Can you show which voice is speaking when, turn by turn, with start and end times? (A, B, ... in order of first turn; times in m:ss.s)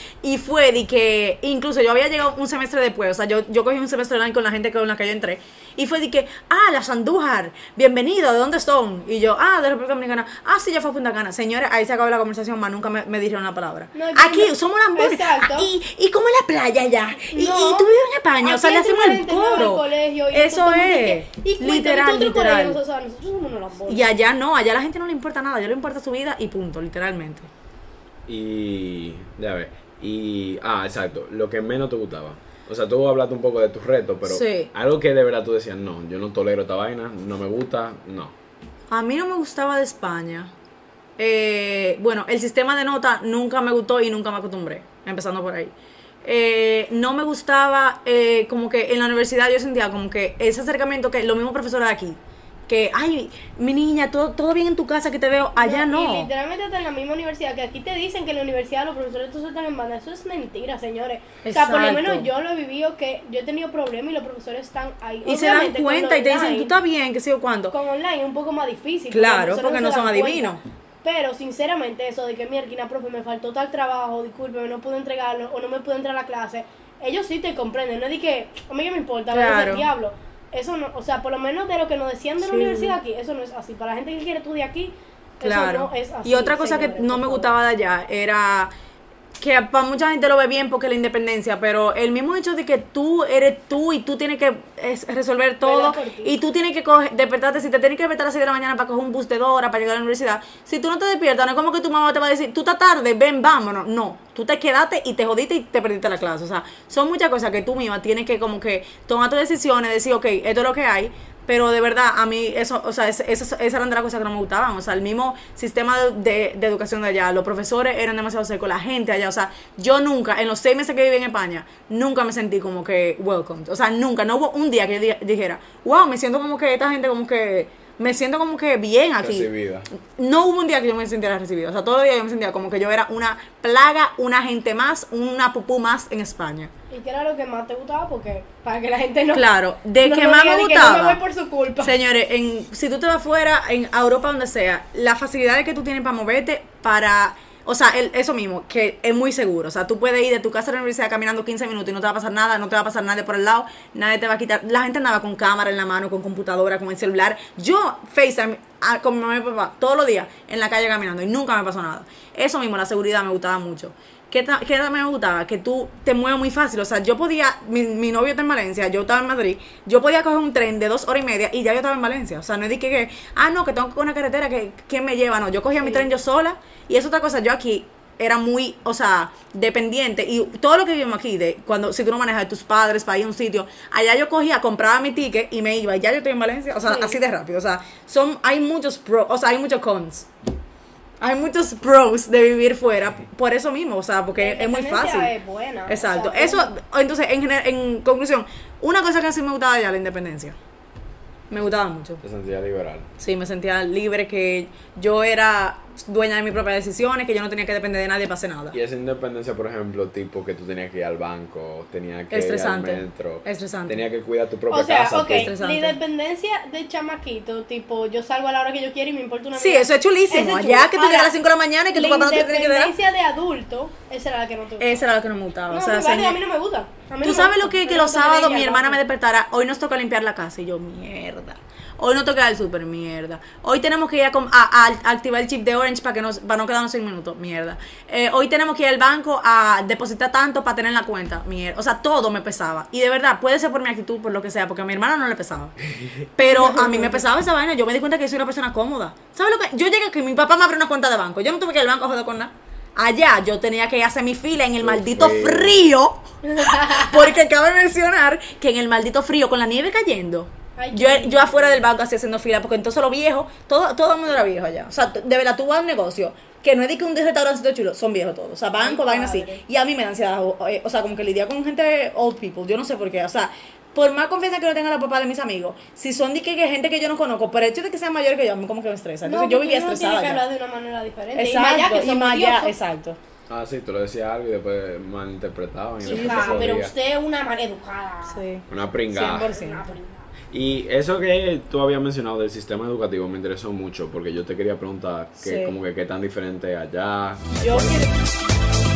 0:00.2-0:22.8 A
0:13.9-0:15.7 B
0:17.3-0:17.9 B
0:18.4-0:24.1 B
0:23.9-0:27.5 A
0:28.3-0:38.3 C
0:34.2-0:34.7 A
0:38.9-0:40.5 A
0:41.2-0:56.3 A
0:55.6-1:06.7 B
1:01.4-1:02.3 A
1:05.2-1:07.7 A
1:07.7-1:27.5 B
1:09.1-1:10.6 A
1:19.3-1:19.9 A
1:22.4-1:23.0 A
1:25.4-1:28.7 A
1:29.4-2:16.7 A
1:35.6-1:36.3 B
2:09.2-2:09.9 C
2:16.9-2:19.5 B
2:19.3-2:21.2 A
2:20.0-2:22.0 B
2:21.8-3:10.3 A
2:55.8-2:56.1 B
3:06.8-3:07.2 B
3:11.2-3:15.3 A
3:14.4-3:16.7 B
3:15.9-3:20.6 A
3:21.5-3:22.2 A
3:22.2-3:23.1 C
3:23.2-3:28.8 A
3:28.7-3:35.5 C
3:32.3-3:34.0 A
3:34.7-3:41.3 B
3:35.3-3:36.0 A
3:39.6-3:42.9 A
3:41.9-3:45.0 B
3:44.8-3:46.4 A
3:45.7-3:49.0 B
3:47.2-4:05.8 A
4:06.4-4:40.4 A
4:06.4-4:07.2 B
4:14.8-4:15.8 C
4:16.5-4:17.2 B
4:20.8-4:21.8 B
4:28.8-4:29.6 B
4:39.2-4:42.7 B
4:41.4-4:43.2 A
4:43.5-4:46.9 C
4:46.0-4:46.7 A
4:46.0-4:48.4 B
4:48.3-4:49.9 A
4:48.7-4:49.5 C
4:49.2-4:50.2 B
4:50.5-4:58.0 C
4:55.4-4:55.8 A
4:57.5-4:58.1 A